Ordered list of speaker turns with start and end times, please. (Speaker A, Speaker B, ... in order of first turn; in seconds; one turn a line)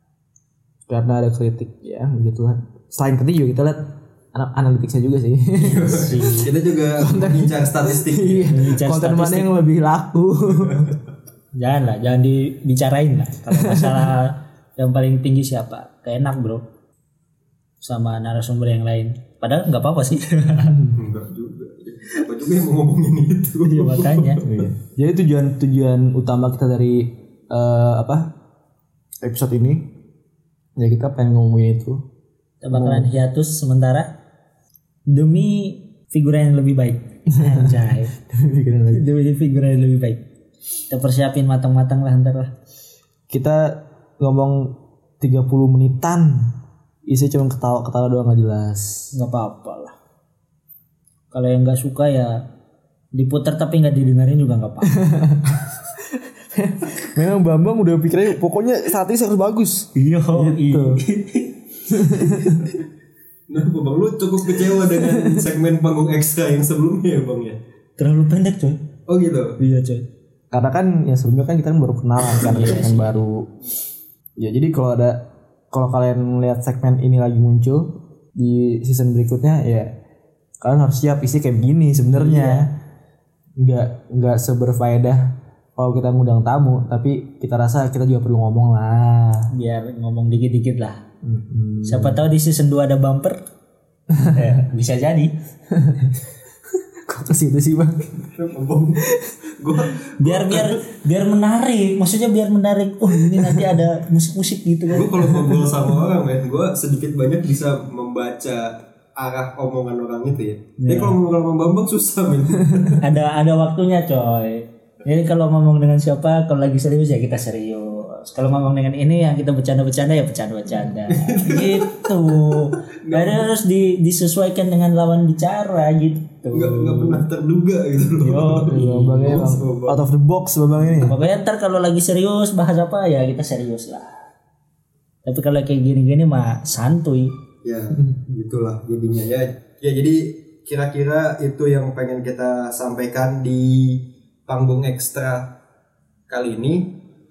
Speaker A: 0.9-6.3
Speaker B: 5.6-8.5
Speaker C: 5.7-6.5
Speaker A: 7.0-10.9
Speaker C: 8.5-9.5
Speaker B: 10.5-10.9
Speaker C: 11.5-16.6
Speaker A: 13.5-14.1
Speaker C: 17.8-20.8
Speaker A: 20.6-21.0
Speaker B: 20.9-24.4
Speaker C: 23.6-24.4
Speaker A: 24.3-28.3
Speaker A: 29.2-29.9
Speaker A: 30.8-32.0
Speaker C: 32.6-34.1
Speaker A: 32.7-33.1
Speaker C: 35.1-38.1
Speaker A: 37.3-39.0
Speaker C: 38.9-40.2
Speaker C: 40.9-42.5
Speaker A: 43.3-46.5
Speaker A: 47.1-49.1
Speaker C: 49.1-49.9
Speaker C: 51.3-52.4
Speaker C: 53.1-55.1
Speaker A: 54.9-61.0
Speaker C: 59.9-62.2
Speaker A: 61.9-62.6
Speaker B: 63.5-67.6
Speaker C: 68.0-68.8
Speaker B: 69.1-69.6
Speaker C: 69.6-70.0
Speaker A: 70.5-73.5
Speaker C: 72.3-73.2
Speaker A: 74.4-79.9
Speaker A: 80.6-82.7
Speaker C: 82.1-82.7
Speaker A: 83.6-89.5
Speaker C: 89.5-91.0
Speaker A: 91.2-92.2
Speaker C: 91.8-93.4
Speaker C: 94.2-95.3
Speaker A: 95.7-96.2
Speaker A: 96.9-98.2
Speaker B: 98.3-100.8
Speaker C: 100.2-105.3
Speaker A: 103.2-103.7
Speaker B: 104.9-113.0
Speaker C: 110.8-111.2
Speaker C: 113.0-127.2
Speaker B: 121.1-122.1
Speaker B: 122.7-123.5
Speaker B: 126.5-130.0
Speaker C: 128.2-129.4
Speaker A: 128.6-131.1
Speaker C: 131.1-134.2
Speaker C: 135.2-137.3
Speaker B: 137.6-145.5
Speaker B: 146.3-147.0